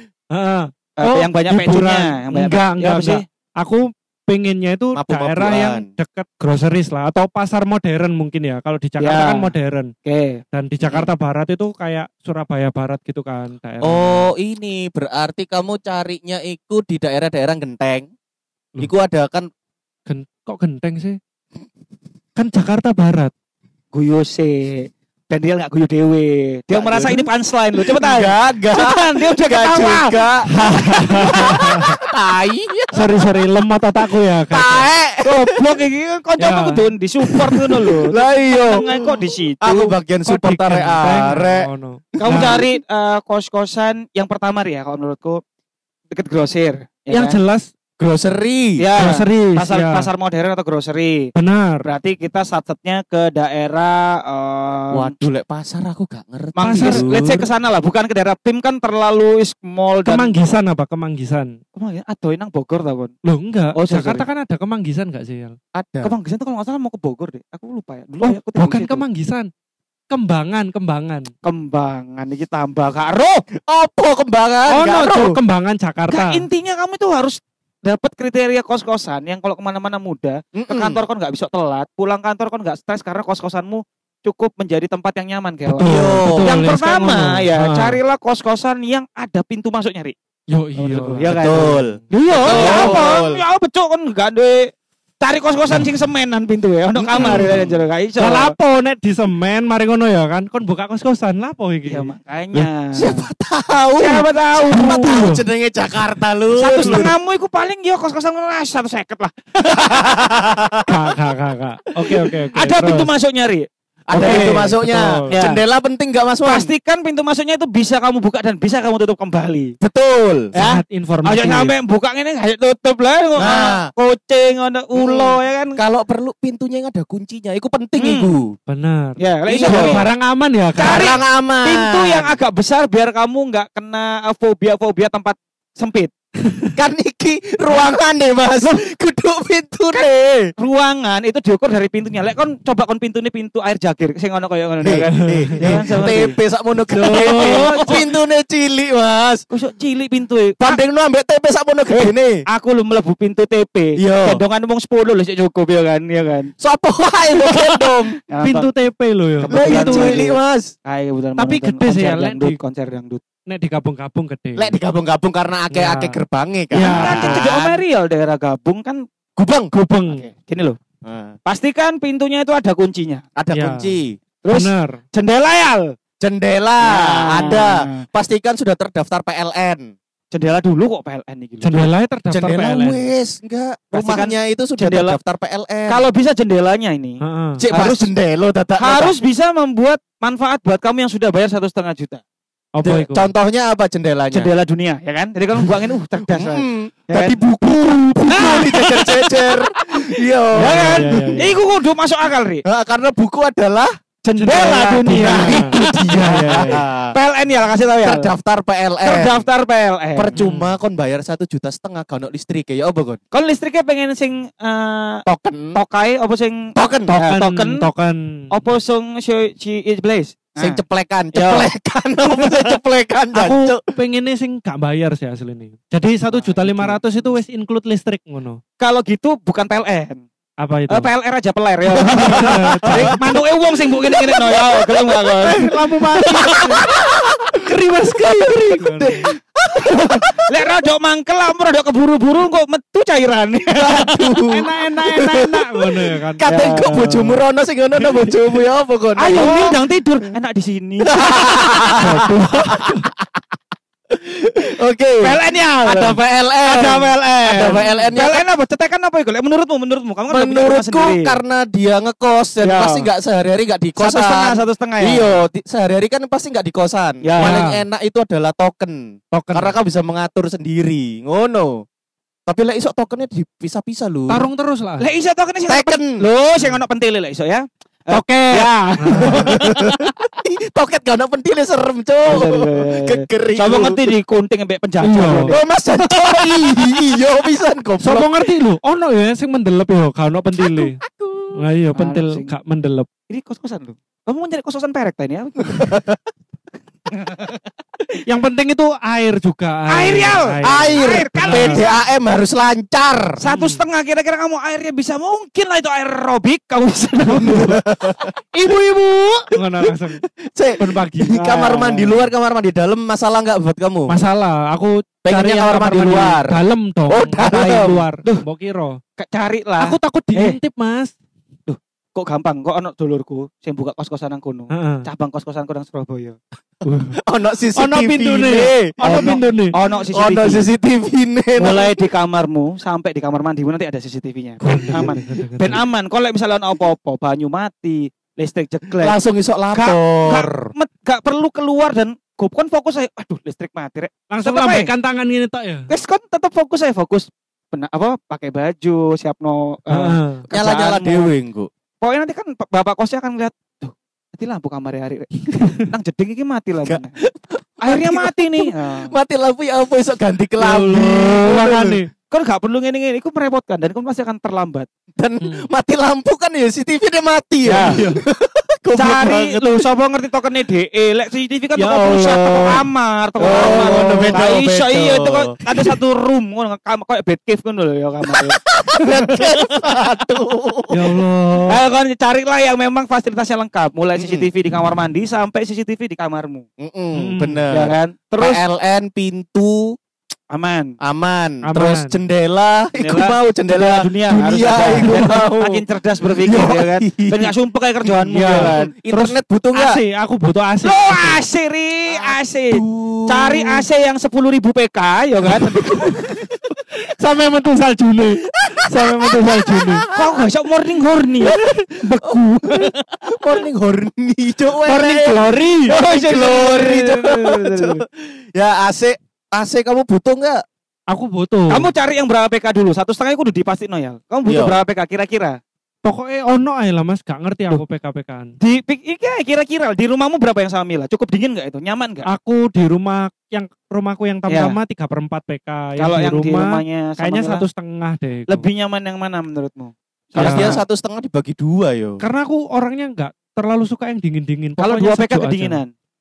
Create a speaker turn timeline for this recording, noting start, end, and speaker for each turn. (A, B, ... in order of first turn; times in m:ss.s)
0:00.3-0:09.9 A
0:01.0-0:03.2 B
0:04.9-0:05.9 C
0:09.0-0:09.5 B
0:10.0-0:10.4 B
0:10.5-0:14.3 A
0:10.8-0:11.1 C
0:13.8-0:18.1 C
0:18.8-0:19.5 C
0:20.1-0:21.2 A
0:22.4-0:23.3 A
0:23.9-0:30.3 B
0:26.7-0:33.2 C
0:30.5-0:32.0 A
0:32.9-0:34.9 A
0:34.5-0:35.6 C
0:35.2-0:40.0 B
0:36.4-0:36.8 A
0:37.5-0:42.6 C
0:40.2-0:42.6 A
0:42.2-0:45.4 B
0:46.1-0:47.4 B
0:47.1-0:47.7 A
0:48.0-0:48.8 C
0:48.8-0:51.3 B
0:48.9-0:50.1 A
0:51.3-0:51.8 A
0:51.8-0:55.1 B
0:54.9-0:57.5 C
0:56.6-1:00.3 B
0:56.6-0:57.4 A
1:00.0-1:01.5 A
1:01.7-1:03.1 B
1:03.2-1:05.6 A
1:03.7-1:04.2 B
1:05.8-1:06.1 C
1:06.0-1:09.0 B
1:08.2-1:09.5 A
1:10.1-1:11.3 A
1:11.4-1:13.4 B
1:13.7-1:15.3 C
1:14.7-1:16.5 A
1:16.1-1:30.1 B
1:20.5-1:21.0 C
1:25.6-1:28.0 A
1:25.8-1:26.6 C
1:30.5-1:33.0 A
1:30.8-1:34.7 B
1:31.3-1:33.4 C
1:35.2-1:38.5 B
1:36.9-1:37.7 C
1:37.1-1:42.7 A
1:41.9-1:43.2 B
1:43.0-1:47.1 C
1:44.0-1:45.0 B
1:44.6-1:45.4 A
1:46.5-1:50.2 B
1:46.7-1:47.0 A
1:49.7-1:50.9 C
1:50.8-1:53.1 A
1:52.1-1:53.6 B
1:54.1-1:56.7 C
1:54.1-1:55.3 A
1:54.2-1:54.7 B
1:55.3-1:55.6 B
1:56.4-1:59.7 B
1:59.8-2:00.5 C
2:00.5-2:01.7 A
2:00.5-2:05.8 B
2:03.4-2:03.9 C
2:04.9-2:08.6 C
2:08.0-2:08.3 B
2:08.7-2:11.0 A
2:09.2-2:10.1 B
2:09.5-2:10.0 C
2:10.7-2:16.1 B
2:10.8-2:12.3 C
2:16.4-2:16.7 A
2:16.8-2:20.5 C
2:19.9-2:26.4 B
2:24.8-2:29.4 C
2:25.1-2:26.1 A
2:26.9-2:28.1 A
2:27.1-2:28.1 B
2:29.5-2:30.8 B
2:30.6-2:32.4 C
2:31.9-2:36.5 B
2:34.0-2:34.4 C
2:36.6-2:38.2 C
2:38.3-2:38.7 B
2:38.4-2:40.3 A
2:39.5-2:43.2 B
2:39.5-2:40.7 C
2:41.4-2:42.6 A
2:43.5-2:44.8 A
2:44.6-2:47.8 C
2:45.7-2:46.2 A
2:46.7-2:47.5 A
2:46.8-2:49.0 B
2:49.4-2:49.7 C
2:49.7-2:50.2 A
2:50.1-2:50.8 B
2:51.0-2:51.4 C
2:51.4-2:53.2 B
2:53.4-2:54.2 C
2:53.5-2:55.0 A
2:54.4-2:55.9 B
2:56.2-2:59.9 C
2:56.8-2:58.0 B
3:00.3-3:01.9 B
3:01.6-3:03.1 A
3:02.3-3:06.1 C
3:03.9-3:05.2 B
3:05.9-3:08.1 B
3:07.2-3:07.6 A
3:07.6-3:09.1 C
3:08.8-3:12.2 B
3:12.7-3:13.3 A
3:12.8-3:14.5 C
3:14.3-3:17.4 B
3:16.3-3:21.5 C
3:17.9-3:18.4 A
3:18.3-3:22.6 B
3:20.5-3:21.6 A
3:22.6-3:23.9 C
3:24.2-3:28.3 B
3:24.4-3:26.8 A
3:24.6-3:27.1 C
3:28.0-3:29.4 C
3:29.0-3:30.4 B
3:30.1-3:33.2 C
3:30.3-3:30.7 A
3:33.3-3:35.2 B
3:35.3-3:35.8 C
3:35.7-3:37.9 B
3:36.8-3:37.1 C
3:37.1-3:38.1 A
3:38.5-3:40.8 B
3:40.6-3:43.8 C
3:41.3-3:41.7 B
3:42.3-3:42.8 B
3:43.3-3:48.6 A
3:46.3-3:47.0 B
3:48.8-3:50.2 B
3:50.6-3:51.1 A
3:50.9-3:55.7 B
3:51.9-3:53.4 A
3:52.0-3:53.2 C
3:54.1-3:54.5 C
3:55.4-3:56.9 A
3:56.2-3:57.1 B
3:57.5-3:59.2 A
3:58.8-4:00.5 C
3:59.9-4:04.4 B
4:03.7-4:09.8 C
4:04.5-4:07.4 A
4:06.4-4:07.0 B
4:08.0-4:08.2 A
4:09.2-4:11.8 B
4:11.0-4:12.9 C
4:12.0-4:13.1 A
4:14.1-4:18.4 C
4:15.2-4:21.4 B
4:17.7-4:18.1 A
4:20.3-4:31.8 C
4:22.6-4:23.1 B
4:24.0-4:25.4 B
4:27.2-4:27.6 B
4:27.4-4:27.8 A
4:29.3-4:29.8 A
4:32.5-4:34.4 C
4:34.3-4:35.0 A
4:35.0-4:40.3 B
4:35.7-4:36.2 C
4:38.1-4:39.6 A
4:39.2-4:44.0 C
4:42.3-4:47.0 B
4:45.0-4:45.5 A
4:45.5-4:48.3 C
4:48.0-4:51.0 A
4:50.6-4:51.6 C
4:51.5-4:53.1 A
4:51.9-4:52.5 B
4:53.3-4:56.0 B
4:55.6-4:56.2 C
4:57.1-4:57.6 B
4:58.3-5:01.9 A
4:59.9-5:02.0 B
5:00.6-5:03.4 C
5:03.4-5:07.8 B
5:03.4-5:03.8 A
5:07.3-5:08.3 C
5:08.5-5:10.2 A
5:09.6-5:09.9 C
5:10.5-5:14.2 C
5:10.8-5:11.4 A
5:11.4-5:12.3 B
5:14.1-5:19.0 A
5:15.2-5:16.6 C
5:17.1-5:18.4 B
5:17.3-5:18.0 C
5:19.2-5:20.6 B
5:19.8-5:21.1 A
5:21.7-5:26.4 B
5:24.7-5:25.0 A
5:26.8-5:27.2 A
5:27.2-5:29.4 C
5:27.7-5:29.7 A
5:29.0-5:30.7 B
5:30.1-5:32.0 C
5:31.6-5:39.2 B
5:34.6-5:35.8 A
5:39.0-5:40.7 C
5:39.7-5:44.9 B
5:44.3-5:45.9 A
5:45.9-5:51.3 B
5:49.9-5:50.5 A
5:50.5-5:51.7 C
5:52.0-5:57.2 B
5:55.5-5:55.9 A
5:56.9-6:02.0 C
5:57.8-5:59.1 B
6:00.6-6:02.1 A
6:02.3-6:04.9 B
6:05.2-6:09.8 C
6:05.4-6:05.7 A
6:07.6-6:08.0 B
6:07.8-6:08.2 A
6:08.9-6:20.4 B
6:11.8-6:12.9 A
6:13.4-6:14.4 A
6:13.4-6:15.6 C
6:18.3-6:21.2 C
6:20.9-6:21.8 A
6:21.7-6:26.6 B
6:24.2-6:24.5 C
6:26.8-6:30.0 C
6:27.1-6:27.8 A
6:27.7-6:28.6 B
6:30.5-6:30.9 B
6:31.0-6:35.8 C
6:31.6-6:32.2 A
6:33.0-6:38.9 B
6:34.7-6:35.2 A
6:36.4-6:37.5 C
6:38.3-6:41.4 A
6:38.5-6:40.0 C
6:40.8-6:46.2 B
6:42.2-6:43.6 C
6:46.0-6:46.3 A
6:46.9-6:50.1 A
6:49.0-6:50.4 C
6:50.1-6:53.3 B
6:51.4-6:52.4 A
6:52.2-7:00.6 C
6:54.8-6:56.0 A
6:55.9-6:58.0 B
7:01.1-7:01.9 A
7:01.7-7:05.6 B
7:04.4-7:04.8 C
7:06.0-7:08.5 A
7:08.6-7:12.2 B
7:12.3-7:18.6 A
7:14.5-7:14.8 B
7:16.0-7:17.6 B
7:18.5-7:20.8 B
7:20.4-7:20.8 A
7:20.4-7:22.2 C
7:22.2-7:25.8 A
7:24.8-7:25.9 B